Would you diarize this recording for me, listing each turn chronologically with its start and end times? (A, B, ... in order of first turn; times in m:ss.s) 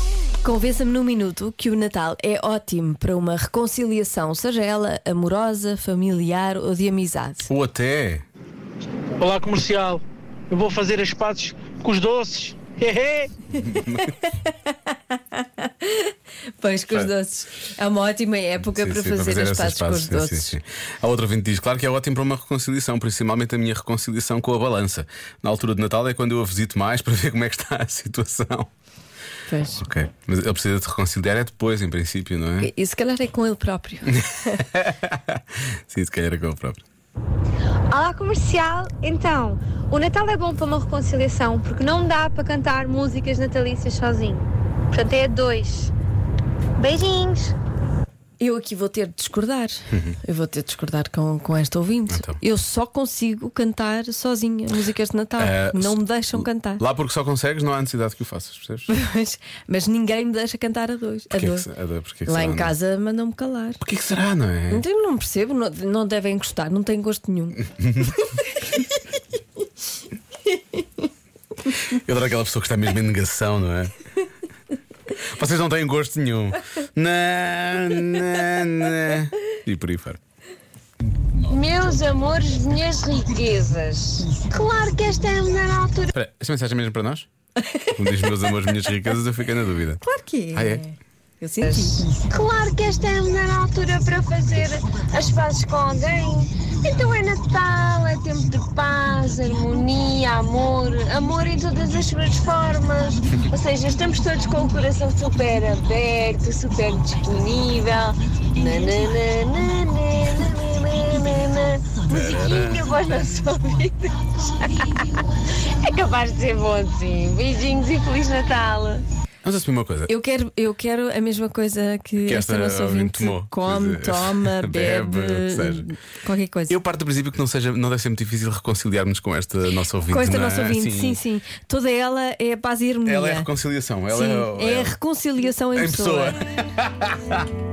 0:00.4-0:07.5 A
0:07.5-0:08.3 B
0:09.2-0:13.3 C
0:13.6-0:14.1 B
0:13.9-0:20.6 A
0:18.6-0:28.7 B
0:29.5-0:29.8 A
0:29.8-0:32.7 B
0:32.6-0:34.6 A
0:34.5-0:36.8 B
0:37.9-0:45.9 D
0:46.8-0:47.5 D
0:48.4-0:56.8 A
0:49.9-0:50.2 B
0:52.1-0:52.4 B
0:55.4-0:58.9 B
0:58.9-1:01.7 A
1:01.3-1:02.7 B
1:02.3-1:03.8 A
1:03.8-1:04.8 B
1:04.7-1:07.6 A
1:07.8-1:08.2 B
1:08.2-1:08.8 A
1:11.9-1:14.0 B
1:15.2-1:20.2 B
1:21.3-1:21.6 B
1:21.5-1:26.1 E
1:26.1-1:27.3 B
1:27.8-1:28.8 A
1:27.9-1:30.0 B
1:30.0-1:32.0 A
1:30.5-1:30.8 B
1:31.6-1:59.0 E
1:52.1-1:52.8 B
1:59.4-2:00.1 B
2:00.1-2:06.8 A
2:02.2-2:05.9 B
2:06.7-2:11.2 B
2:10.1-2:13.5 A
2:13.0-2:15.0 B
2:14.1-2:16.4 A
2:15.8-2:17.5 B